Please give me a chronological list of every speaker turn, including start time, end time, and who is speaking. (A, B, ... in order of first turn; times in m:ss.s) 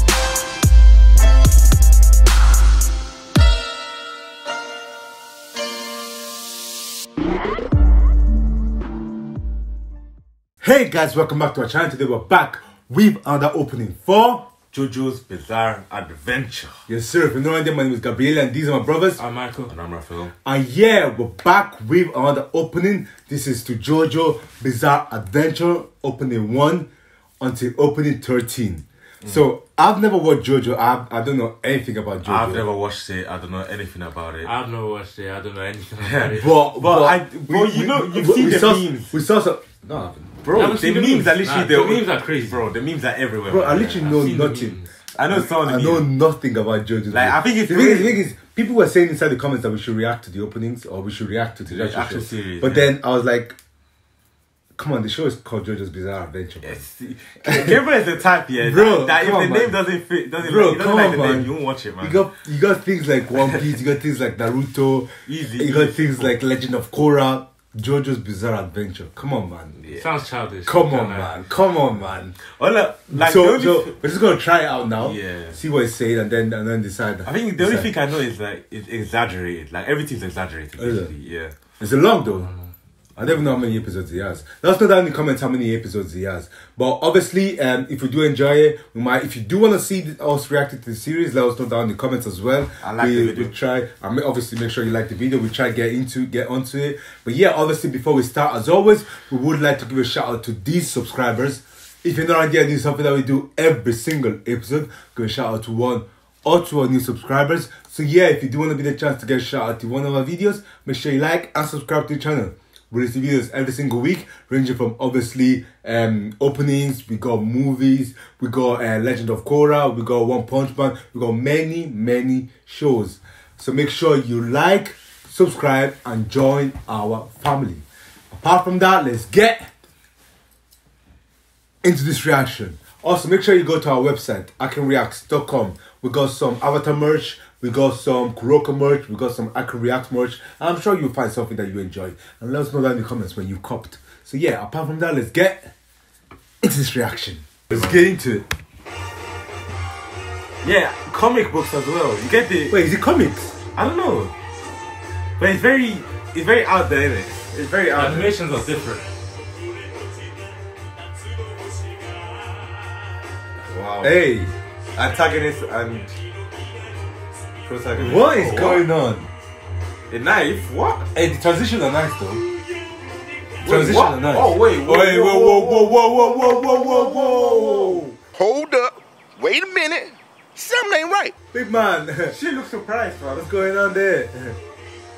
0:10.6-0:14.5 A
0:14.7-0:16.8 B
0:16.9-0:19.2 A
0:19.2-0:19.7 C
0:19.7-0:20.3 B
0:20.4-0:26.9 A
0:27.4-0:32.7 A
0:32.2-0:34.5 B
0:34.4-0:36.5 C
0:36.0-0:39.1 B
0:36.3-0:40.3 A
0:40.4-0:44.4 B
0:40.5-0:42.6 C
0:43.5-0:44.8 A
0:44.1-0:44.8 C
0:45.1-0:46.1 B
0:45.3-0:53.6 A
0:47.1-0:48.2 B
0:51.7-0:52.9 B
0:54.8-0:56.8 A
0:56.6-1:02.2 B
0:57.4-0:57.8 A
0:58.6-0:59.8 A
1:00.4-1:09.8 A
1:05.2-1:06.3 B
1:09.8-1:10.1 B
1:10.0-1:11.4 C
1:10.6-1:12.3 A
1:12.4-1:13.9 B
1:13.1-1:17.9 A
1:15.0-1:15.6 B
1:17.2-1:21.5 B
1:20.8-1:21.1 A
1:21.8-1:22.5 A
1:23.2-2:09.7 A
1:32.8-1:33.5 B
2:11.8-2:25.7 A
2:26.6-2:28.4 A
2:30.6-2:32.8 B
2:32.7-2:33.6 A
2:33.8-2:34.3 B
2:35.4-2:38.3 B
2:38.0-2:39.1 C
2:43.6-2:44.2 B
2:44.0-2:44.5 A
2:44.9-2:46.2 B
2:47.6-2:48.8 B
2:48.0-2:49.3 A
2:48.2-2:48.8 C
2:50.1-2:51.1 B
2:51.2-2:52.4 A
2:53.6-2:58.0 A
2:53.6-2:58.2 B
2:58.3-3:01.4 D
3:01.5-3:02.4 A
3:02.3-3:03.6 B
3:03.3-3:04.6 A